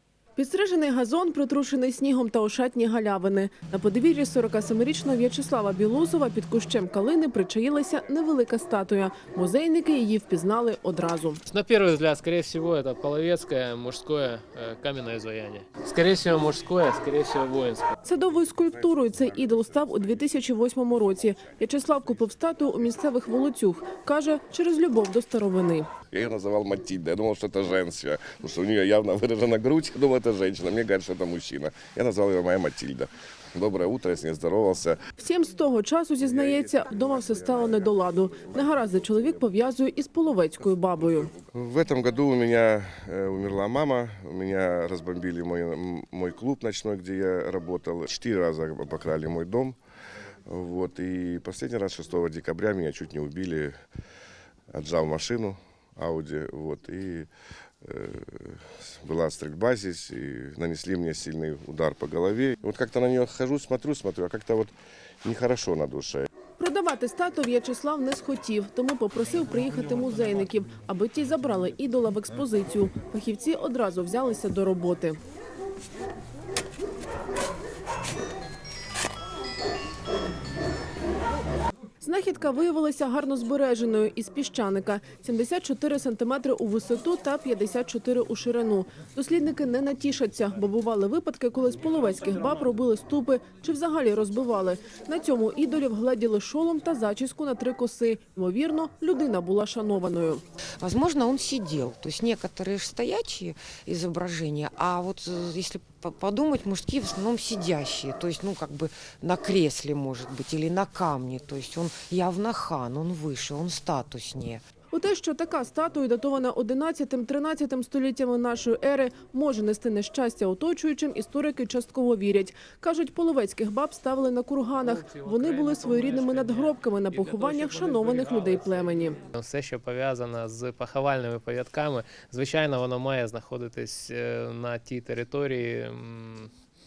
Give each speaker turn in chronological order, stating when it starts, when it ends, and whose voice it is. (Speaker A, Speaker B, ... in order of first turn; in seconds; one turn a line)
Speaker A: 0.4-11.4
Speaker B: 11.5-17.9
Speaker A: 18.0-25.9
Speaker C: 26.1-35.0
Speaker A: 35.2-41.3
Speaker C: 38.5-38.9
Speaker C: 41.4-49.8
Speaker C: 50.5-53.7
Speaker C: 54.7-57.3
Speaker C: 57.8-64.7
Speaker C: 65.2-66.3
Speaker A: 66.6-75.2
Speaker A: 82.0-100.4
Speaker D: 100.8-114.6
Speaker A: 114.9-129.2
Speaker B: 124.8-128.7
Speaker B: 129.3-136.5